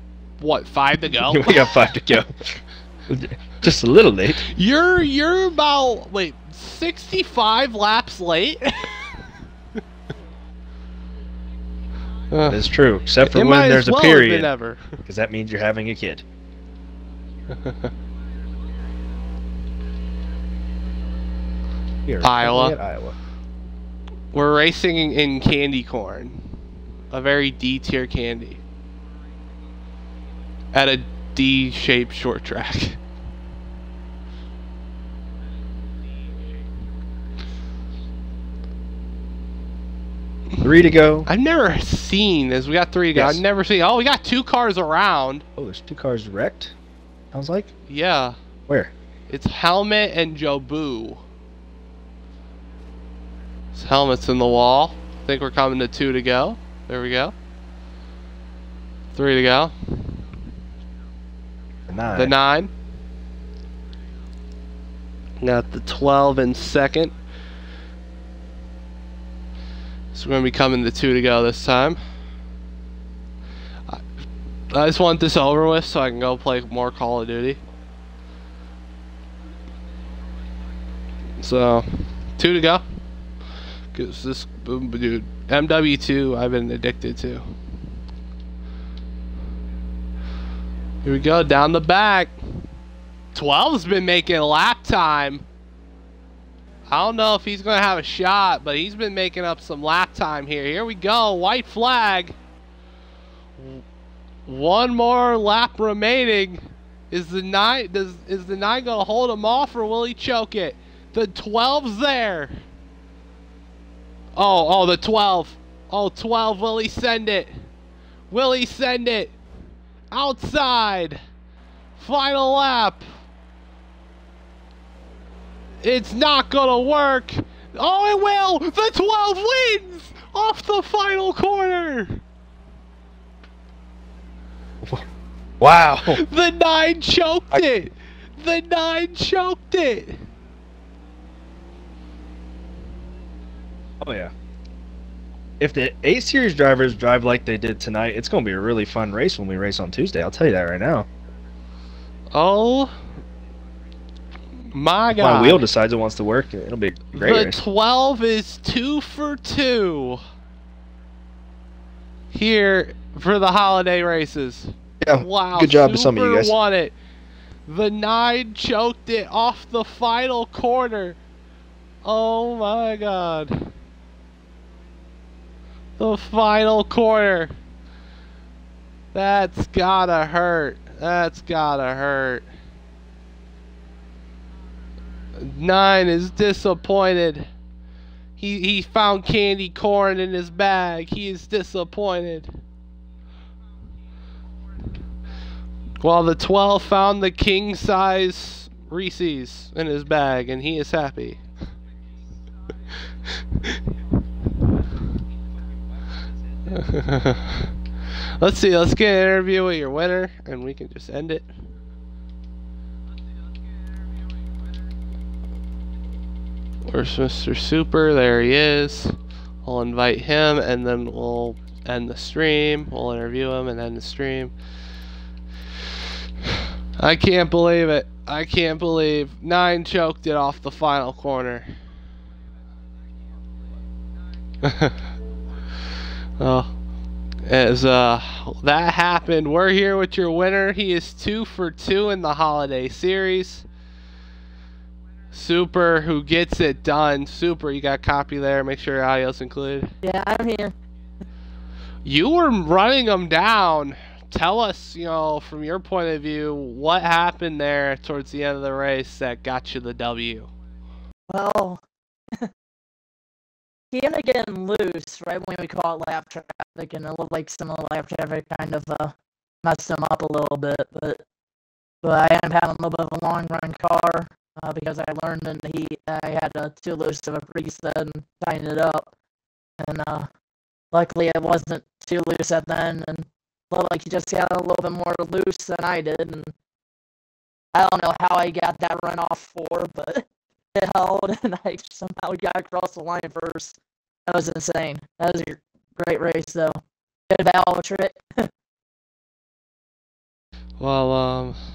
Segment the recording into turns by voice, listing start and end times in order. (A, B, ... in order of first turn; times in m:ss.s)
0:00.4-0:01.8 A
0:01.1-0:04.4 B
0:04.4-0:09.2 A
0:12.3-0:12.7 A
0:12.4-0:14.5 B
0:13.2-0:15.0 A
0:15.0-0:16.2 B
0:17.5-0:17.8 A
0:22.0-0:23.2 B
0:22.2-0:22.8 A
0:24.3-0:26.5 A
0:27.1-0:28.6 A
0:30.7-0:33.0 A
0:40.6-0:41.3 B
0:41.3-0:45.4 A
0:43.1-0:43.4 B
0:45.6-0:46.7 B
0:47.3-0:47.7 B
0:47.9-0:48.4 A
0:49.3-0:51.2 A
0:53.7-0:57.3 A
0:59.1-1:00.2 A
1:01.9-1:02.3 B
1:02.1-1:02.7 A
1:05.4-1:07.1 A
1:10.1-1:12.0 A
1:14.7-1:17.6 A
1:21.4-1:22.8 A
1:23.9-1:27.4 A
1:31.0-1:32.3 A
1:33.3-1:35.4 A
1:36.9-1:42.3 A
1:44.5-1:52.5 A
1:54.4-1:57.5 A
1:58.3-1:59.4 A
2:00.1-2:01.2 A
2:02.0-2:03.1 A
2:05.8-2:12.2 A
2:15.6-2:16.2 B
2:16.1-2:20.2 A
2:24.0-2:24.3 B
2:25.6-2:31.1 B
2:32.3-2:32.9 A
2:34.7-2:35.6 A
2:35.1-2:37.6 B
2:37.2-2:40.2 A
2:42.3-2:47.0 A
2:45.0-2:46.5 B
2:47.7-2:51.2 A
2:52.0-2:53.7 A
2:56.0-2:57.5 A
2:59.1-3:02.4 A
3:05.4-3:07.5 A
3:08.4-3:12.6 A
3:16.0-3:21.4 A
3:23.4-3:23.7 A
3:26.7-3:27.7 A
3:28.4-3:31.5 A
3:36.8-3:44.5 A
3:46.4-3:51.7 A
3:54.6-3:55.0 A
3:56.4-3:56.7 A
3:57.4-4:03.6 A
4:05.3-4:09.9 A
4:10.0-4:10.7 C
4:12.0-4:20.5 A
4:21.3-4:21.8 C
4:23.9-4:31.2 C
4:32.0-4:39.1 C
4:39.8-4:40.3 C
4:40.9-4:46.5 C
4:47.7-4:53.8 C
4:54.3-4:58.5 C
5:00.8-5:01.6 A